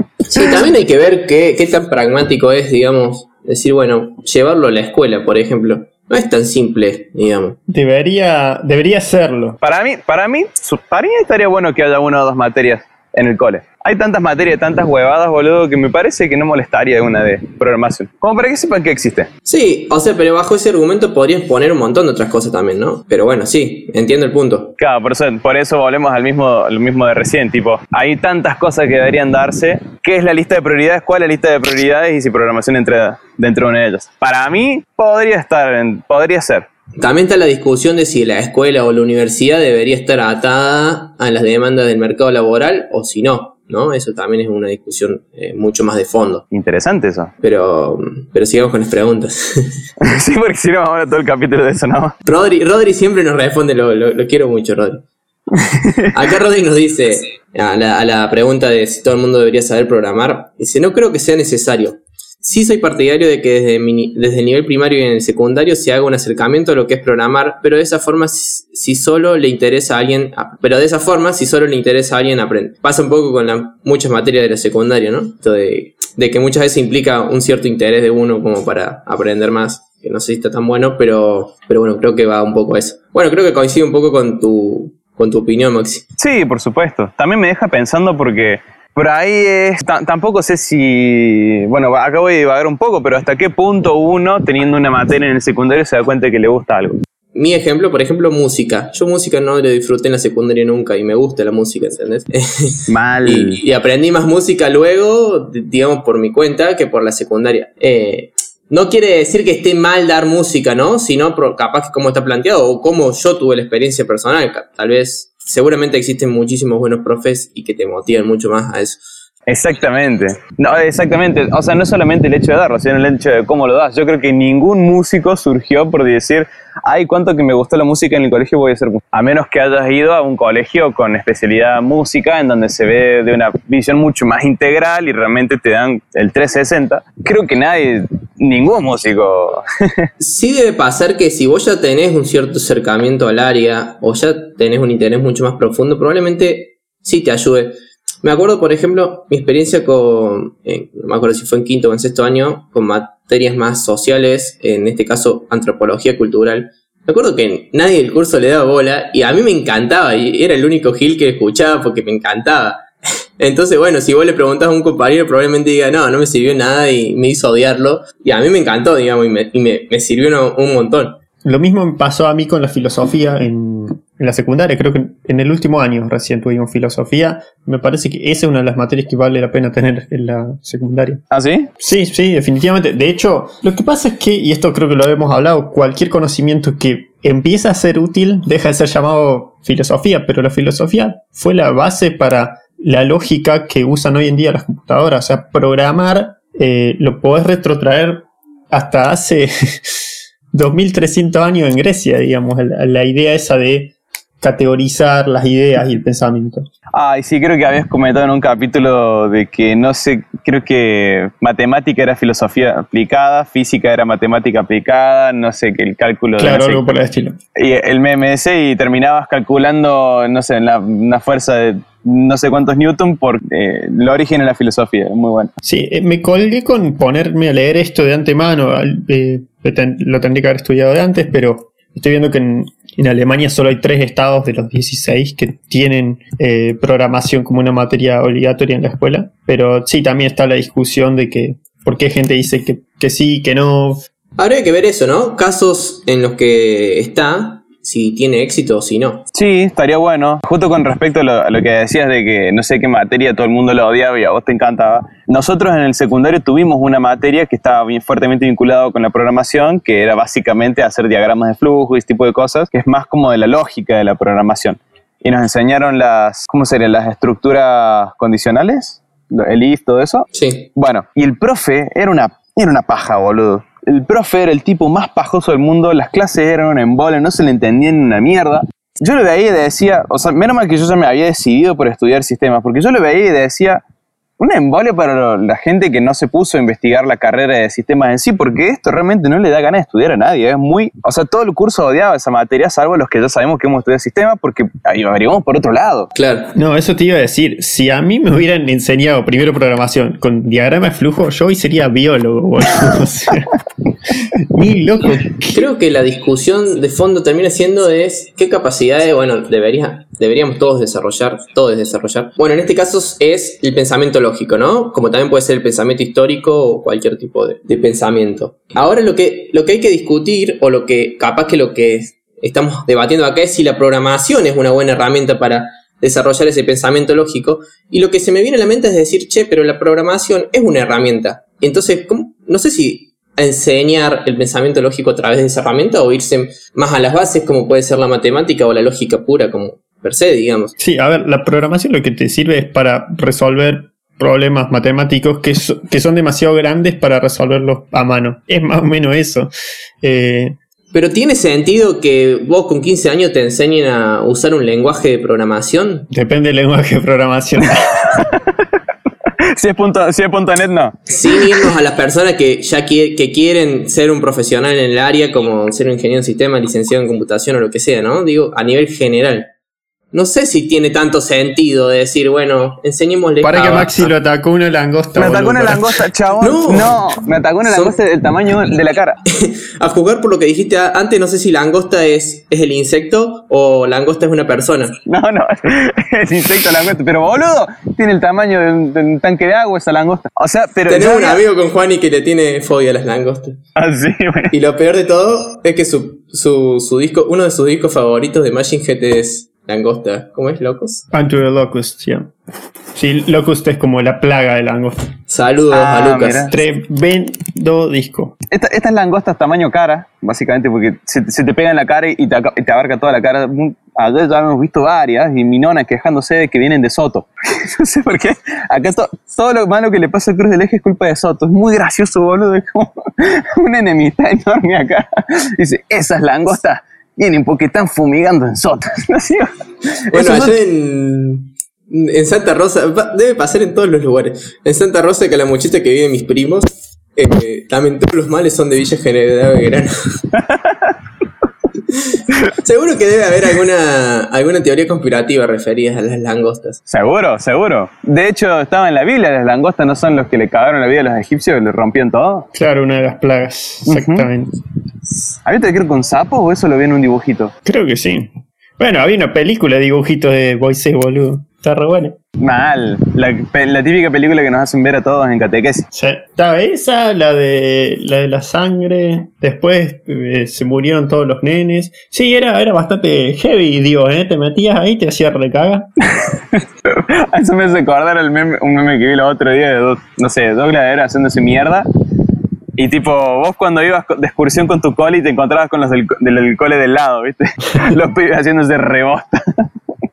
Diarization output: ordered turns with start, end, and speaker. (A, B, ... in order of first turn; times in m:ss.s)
0:00.3-0:07.6 A
0:07.7-0:09.6 B
0:09.6-0:19.3 C
0:19.4-0:24.7 A
0:24.8-0:36.7 C
0:37.0-0:46.4 A
0:46.5-0:47.3 C
0:47.4-0:49.8 A
0:50.0-0:52.2 C
0:52.2-0:55.0 A
0:55.6-0:56.0 C
0:56.1-1:26.0 A
1:26.2-1:37.0 C
1:37.3-1:59.0 A
1:42.9-1:43.6 C
1:59.5-2:20.1 C
2:20.2-2:42.8 A
2:43.4-2:51.2 A
2:51.4-3:01.2 B
3:01.3-3:01.7 C
3:01.8-3:26.7 B
3:26.9-3:36.8 C
3:36.4-3:37.4 B
3:37.6-3:45.5 C
3:45.6-4:04.0 B
4:04.4-4:09.2 A
4:09.3-4:43.8 C
4:30.3-4:30.7 A
4:44.4-4:56.1 C
4:56.1-4:56.5 A
4:56.5-5:03.5 B
5:04.5-5:05.7 B
5:05.5-5:40.7 A
5:40.8-5:49.5 B
5:50.0-5:50.6 B
5:50.9-5:56.1 A
5:56.1-5:58.0 B
5:58.1-5:58.5 C
5:59.5-6:01.7 C
6:01.1-6:09.5 A
6:10.1-6:14.1 A
6:13.4-6:16.0 B
6:15.2-6:19.2 C
6:16.4-6:17.0 A
6:17.6-6:18.0 A
6:19.3-6:25.0 A
6:25.0-6:31.4 C
6:30.9-6:33.6 A
6:33.8-6:34.5 C
6:34.5-6:41.0 A
6:41.1-6:42.3 B
6:42.9-6:45.0 B
6:45.3-6:46.5 A
6:45.7-6:46.5 C
6:46.5-6:48.4 B
6:48.5-7:09.6 C
7:10.1-7:10.5 C
7:10.1-7:19.9 A
7:20.4-7:20.9 C
7:22.0-7:26.8 A
7:26.9-7:32.5 C
7:32.5-7:34.5 B
7:33.9-7:34.3 C
7:35.4-7:37.5 C
7:37.6-7:42.2 B
7:42.4-7:45.8 C
7:45.9-7:55.9 B
7:56.1-8:01.8 C
8:02.8-8:09.6 C